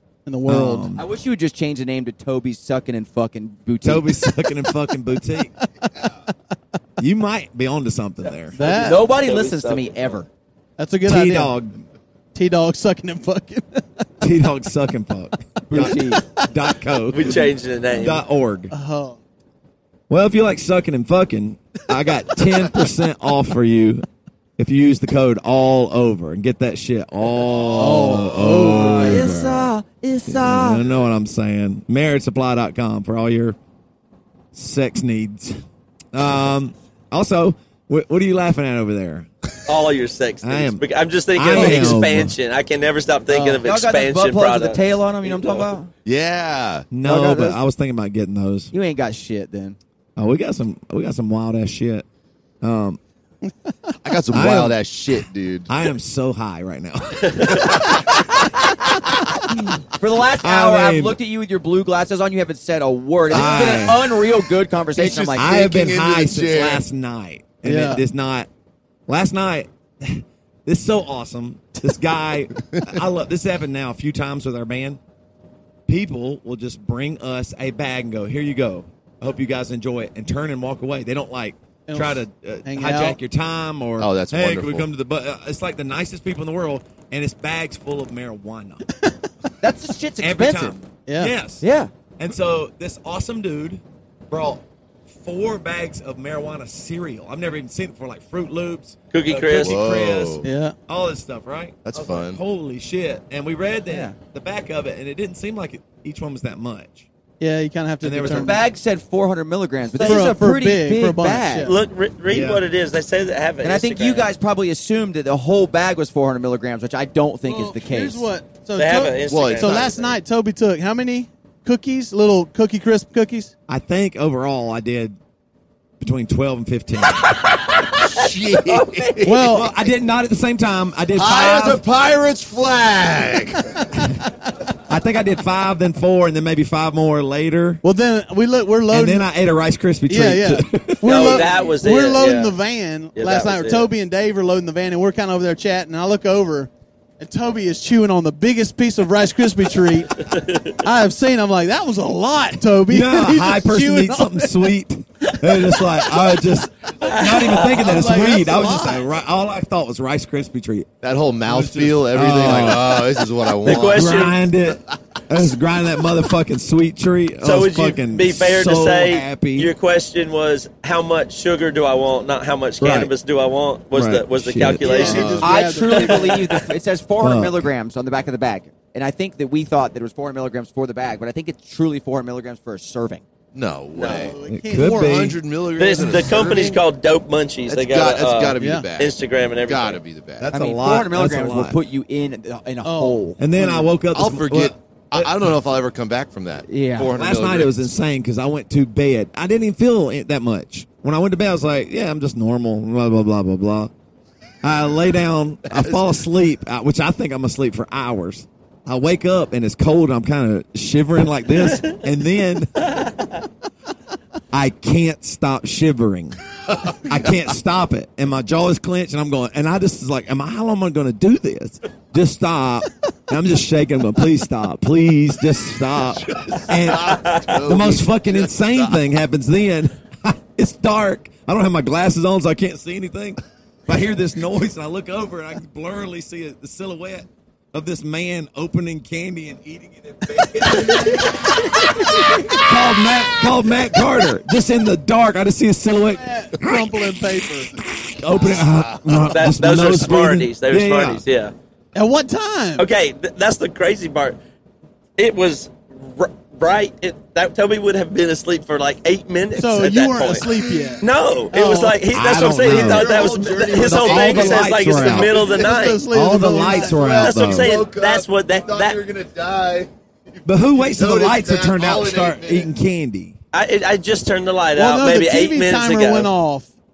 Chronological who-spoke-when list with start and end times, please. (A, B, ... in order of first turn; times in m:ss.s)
0:00.3-0:00.9 A
0:00.5-0:01.0 B
0:01.0-0:04.3 C
0:03.8-0:05.5 B
0:05.6-0:06.1 A
0:07.0-0:08.6 B
0:08.6-0:09.0 A
0:08.6-0:10.3 C
0:09.0-0:10.1 D
0:10.8-0:11.5 A
0:11.0-0:11.8 B
0:12.4-0:13.8 A
0:14.2-0:17.5 B
0:15.7-0:16.2 C
0:17.1-0:18.2 D
0:18.0-0:18.7 B
0:18.7-0:19.2 A
0:20.1-0:24.1 B
0:24.6-0:29.7 B
0:27.7-0:28.0 E
0:27.8-0:29.4 A
0:28.6-0:30.8 C
0:30.3-0:33.6 B
0:34.5-0:39.3 B
0:39.7-0:45.7 D
0:40.4-0:40.8 B
0:41.4-0:42.3 B
0:41.5-0:42.1 C
0:43.3-0:45.9 C
0:46.0-0:46.9 E
0:46.9-0:48.7 B
0:47.0-0:47.6 C
0:48.7-0:49.8 C
0:50.2-0:52.0 B
0:52.6-0:53.0 B
0:54.0-0:55.7 E
0:54.3-0:58.2 B
0:57.3-0:57.6 D
0:59.9-1:05.5 C
1:00.4-1:01.2 B
1:03.3-1:04.1 B
1:03.3-1:04.0 E
1:05.0-1:06.8 E
1:05.4-1:08.5 B
1:07.6-1:08.0 A
1:09.1-1:15.0 B
1:15.9-1:28.8 B
1:21.9-1:23.2 A
1:24.0-1:24.9 E
1:29.6-1:30.8 C
1:30.2-1:31.6 B
1:31.1-1:31.3 A
1:31.6-1:31.9 C
1:32.2-1:47.1 B
1:39.1-1:39.8 D
1:39.6-1:40.4 E
1:40.4-1:40.8 A
1:41.8-1:42.4 E
1:43.9-1:44.2 C
1:47.4-1:48.6 A
1:48.0-1:48.6 B
1:48.2-1:51.7 C
1:50.0-1:51.8 A
1:51.6-1:54.3 D
1:52.3-1:52.6 B
1:53.6-1:58.3 C
1:57.5-2:03.5 A
1:58.8-2:00.1 D
1:59.3-2:00.0 E
2:03.7-2:05.2 B
2:06.0-2:07.3 B
2:07.3-2:09.2 D
2:08.0-2:09.6 E
2:09.2-2:09.7 A
2:09.3-2:11.8 B
2:11.2-2:13.9 E
2:14.9-2:17.8 B
2:17.8-2:19.3 A
2:18.9-2:21.4 B
2:20.1-2:30.2 A
2:21.0-2:22.6 D
2:23.2-2:23.9 D
2:30.1-2:30.8 D
2:30.8-2:34.6 A
2:32.9-2:40.9 B
2:35.9-2:36.3 D
2:37.0-2:38.3 D
2:37.6-2:39.1 A
2:41.0-2:44.3 E
2:41.5-2:49.7 B
2:43.6-2:44.4 D
2:47.4-2:56.6 D
2:52.8-2:53.1 B
2:53.9-2:55.2 B
2:54.8-2:56.4 A
2:54.9-2:55.5 E
2:55.4-3:03.2 C
2:57.2-2:57.6 B
3:03.5-3:06.8 E
3:04.0-3:04.3 D
3:04.0-3:05.3 A
3:04.5-3:05.4 B
3:05.8-3:10.0 D
3:06.0-3:06.3 A
3:07.7-3:09.1 E
3:08.6-3:08.9 A
3:09.7-3:10.5 E
3:10.4-3:11.8 B
3:10.5-3:13.4 C
3:12.8-3:13.2 A
3:13.4-3:15.5 B
3:13.6-3:17.9 E
3:16.7-3:17.1 C
3:17.2-3:23.9 B
3:24.6-3:33.1 B
3:25.7-3:26.1 E
3:32.9-3:33.3 D
3:34.5-4:11.2 B
3:36.7-3:37.4 E
3:46.2-3:49.0 E
3:46.5-3:47.6 D
4:06.1-4:07.8 A
4:08.4-4:09.4 E
4:09.2-4:11.5 D
4:12.0-4:12.9 A
4:12.8-4:14.4 D
4:15.2-4:26.1 D
4:19.6-4:22.1 A
4:22.1-4:25.5 B
4:22.6-4:25.7 E
4:25.1-4:27.0 A
4:26.0-4:27.8 B
4:26.7-4:29.0 D
4:26.7-4:32.7 E
4:30.5-4:33.4 B
4:33.5-4:36.3 D
4:34.8-4:36.7 A